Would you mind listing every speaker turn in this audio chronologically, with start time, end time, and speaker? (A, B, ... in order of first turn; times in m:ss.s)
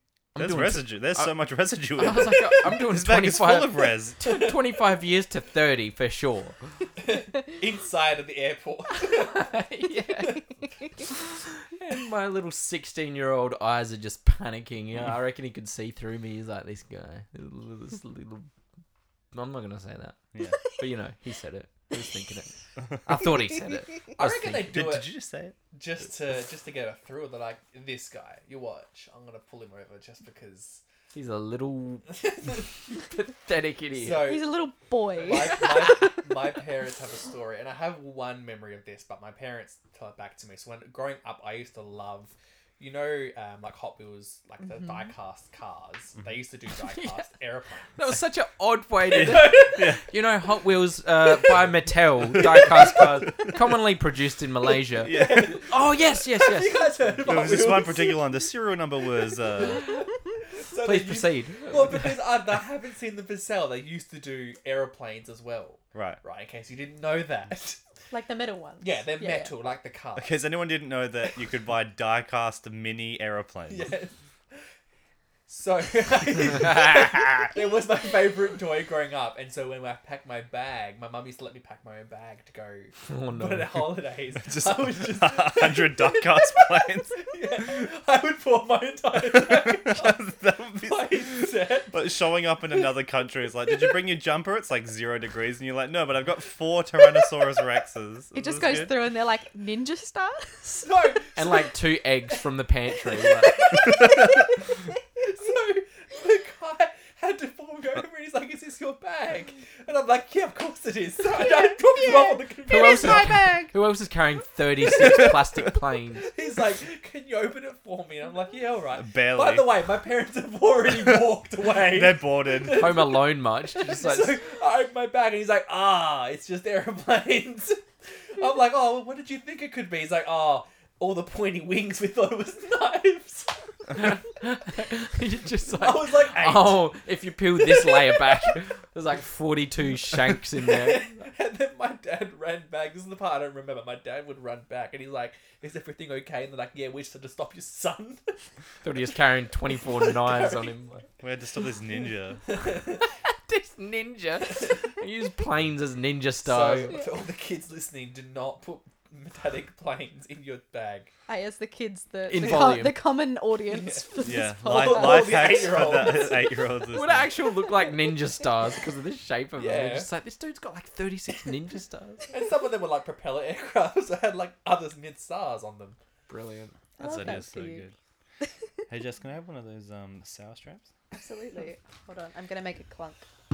0:00.4-0:01.4 A
0:00.4-0:04.2 B
0:01.9-0:06.6 A
0:04.3-0:04.5 C
0:07.0-0:09.6 C
0:09.0-0:10.4 A
0:10.2-0:11.0 D
0:11.1-0:18.5 A
0:19.3-0:24.7 A
0:20.3-0:20.6 B
0:24.2-0:25.1 C
0:24.6-0:25.6 B
0:25.7-0:30.8 C
0:31.1-0:32.2 A
0:32.2-0:32.6 C
0:33.0-0:34.3 A
0:33.9-0:34.5 C
0:34.2-0:36.5 D
0:35.2-0:48.1 C
0:44.6-0:45.1 D
0:46.8-0:47.3 A
0:48.0-0:57.3 A
0:49.1-0:49.9 C
0:49.1-0:50.0 B
0:52.4-0:53.3 B
0:52.6-0:53.0 C
0:55.0-0:58.2 C
0:55.0-0:55.7 B
0:57.2-1:00.0 B
0:59.6-0:59.9 C
1:00.6-1:07.8 C
1:00.8-1:02.2 A
1:05.9-1:06.2 B
1:08.1-1:09.5 D
1:08.8-1:10.4 C
1:10.2-1:13.9 B
1:13.7-1:14.6 C
1:15.5-1:30.2 C
1:23.1-1:23.9 A
1:24.4-1:27.2 B
1:29.2-1:38.9 B
1:30.8-1:32.0 C
1:38.3-1:40.9 D
1:40.8-1:41.8 C
1:41.4-1:43.8 A
1:43.1-1:53.3 C
1:43.9-1:44.4 B
1:51.3-1:53.7 D
1:52.7-1:56.3 A
1:55.0-1:55.6 B
1:56.3-2:07.8 C
1:59.0-1:59.7 B
2:00.9-2:03.0 B
2:02.8-2:04.4 A
2:08.4-2:14.2 C
2:13.9-2:21.1 A
2:15.7-2:16.9 C
2:17.6-2:18.5 C
2:20.3-2:28.4 C
2:28.8-2:31.0 A
2:29.7-2:30.8 C
2:31.2-2:32.4 B
2:32.5-2:33.1 C
2:33.2-2:37.0 A
2:36.4-2:41.1 C
2:36.9-2:37.2 D
2:41.3-2:45.6 D
2:42.3-2:43.0 A
2:43.7-2:46.6 C
2:44.2-2:47.3 B
2:46.9-2:52.3 A
2:49.6-2:50.1 C
2:52.3-2:56.0 C
2:56.3-2:56.8 A
2:57.0-2:57.8 D
2:57.0-2:58.0 B
2:58.9-3:00.9 B
3:01.1-3:03.3 D